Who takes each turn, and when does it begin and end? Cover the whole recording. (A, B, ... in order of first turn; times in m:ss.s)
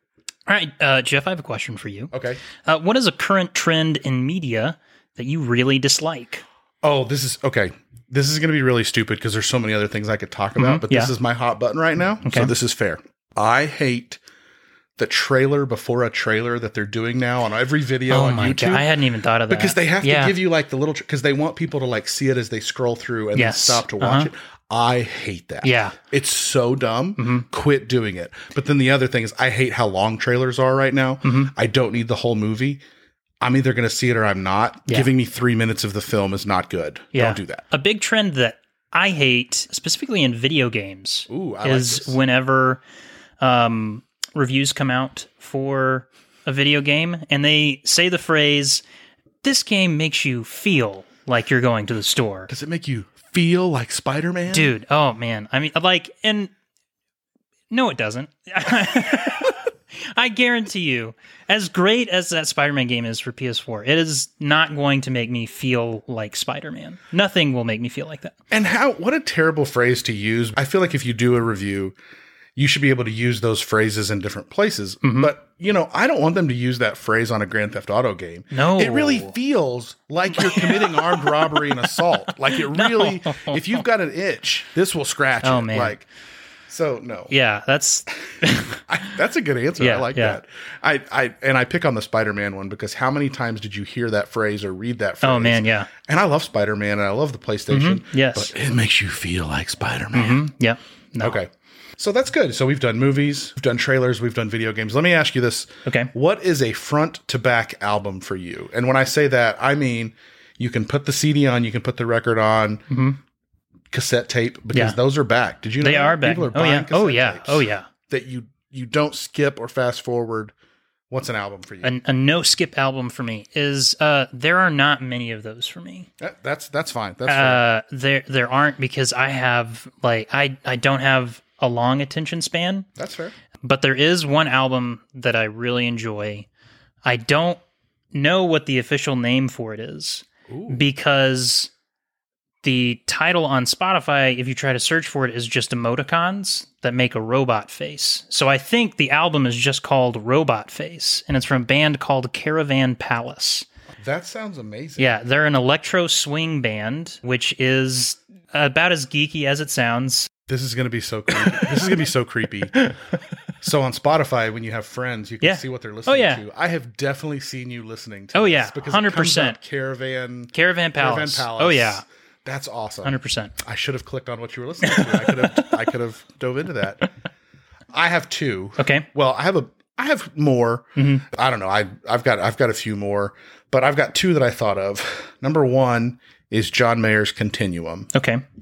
0:00.5-0:06.4 A
0:02.1-0:02.4 B
0:06.8-0:14.2 B
0:10.6-0:11.1 A
0:12.2-0:12.5 A
0:15.0-0:18.9 B
0:18.1-0:20.4 A
0:19.5-0:32.8 B
0:23.4-0:24.3 A
0:25.6-0:26.0 A
0:27.2-0:27.4 A
0:31.2-0:31.5 A
0:33.4-0:37.6 B
0:37.1-0:42.8 A
0:41.3-0:42.2 B
0:43.4-0:48.8 A
0:49.4-0:52.5 A
0:52.5-0:54.7 B
0:54.5-0:56.5 A
0:57.7-1:08.3 A
1:08.5-1:12.0 B
1:12.6-1:26.1 B
1:15.0-1:15.3 A
1:18.5-1:19.3 A
1:20.3-1:21.7 A
1:22.7-1:23.6 A
1:25.4-1:26.0 A
1:26.7-1:27.3 B
1:27.3-1:28.9 A
1:28.9-1:40.4 B
1:29.8-1:30.4 A
1:35.2-1:35.9 A
1:37.7-1:38.5 A
1:40.1-1:41.4 A
1:41.2-1:52.8 B
1:45.9-1:46.1 A
1:52.9-1:53.2 A
1:53.9-2:00.5 B
1:55.8-1:57.9 A
2:01.1-2:01.9 B
2:01.8-2:06.1 A
2:06.2-2:07.6 B
2:07.3-2:12.9 A
2:13.0-2:13.3 B
2:13.6-2:16.5 A
2:17.0-2:17.6 A
2:18.1-2:21.7 A
2:20.5-2:20.9 B
2:22.6-2:33.7 A
2:34.0-2:35.1 B
2:35.0-2:40.3 A
2:40.5-2:42.8 B
2:43.6-2:57.1 B
2:45.4-2:46.4 A
2:48.3-2:49.6 A
2:50.5-2:52.0 A
2:53.0-2:53.6 A
2:54.8-2:55.7 A
2:57.9-3:08.1 B
2:58.8-2:59.1 A
3:01.0-3:01.3 A
3:08.1-3:08.4 A